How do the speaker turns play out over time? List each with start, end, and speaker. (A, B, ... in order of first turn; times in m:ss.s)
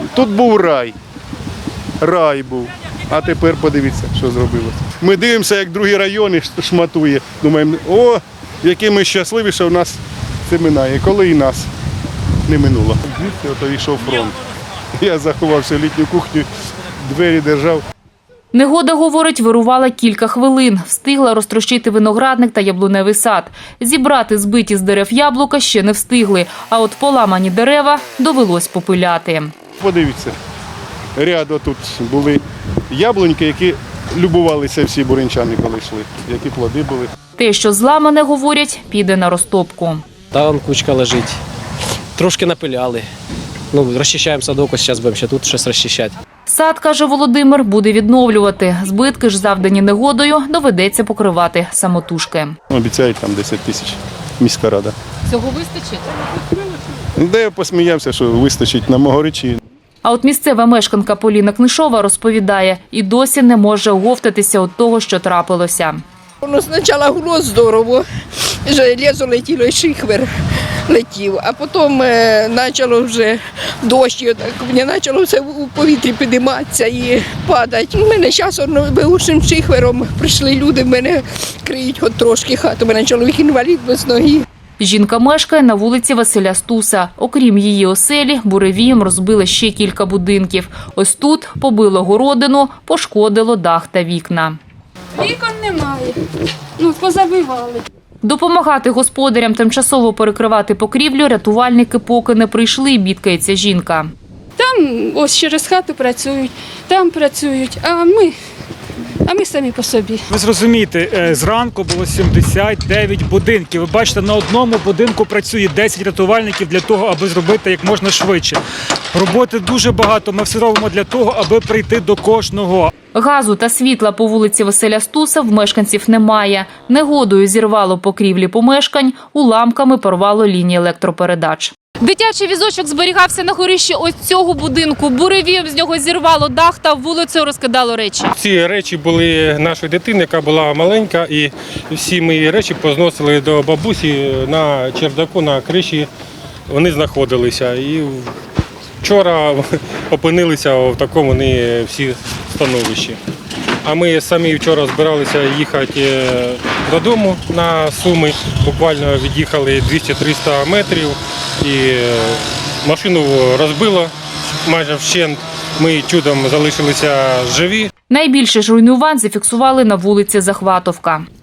0:00.1-0:00.9 A
0:02.0-0:11.7 A
0:12.5-0:14.4 A
0:15.0-0:16.5 A
0:17.0-0:17.8 A
0:18.5-0:29.5 B
0:29.8-0:30.3 A
0:31.2-0:37.1 A
0:37.4-0:40.0 B
0:40.3-0:41.4 C
0:42.2-0:43.1 C
0:43.7-0:46.2 C
0:46.5-0:52.6 B
0:52.7-0:54.9 A
0:57.2-0:59.6 A
1:00.0-1:06.0 B
1:06.4-1:08.0 D
1:08.6-1:10.3 D
1:10.9-1:24.4 D
1:24.8-1:34.6 B
1:35.2-1:36.2 E
1:36.8-1:37.8 E
1:38.2-1:44.1 B
1:44.6-1:48.4 E
1:49.2-1:50.3 E
1:50.3-1:58.6 F
1:59.1-2:02.9 F
2:03.1-2:18.3 B
2:18.4-2:26.1 G
2:26.7-2:28.3 G
2:29.0-2:33.2 G
2:33.8-2:44.1 G
2:44.6-2:47.9 G
2:48.1-2:51.2 B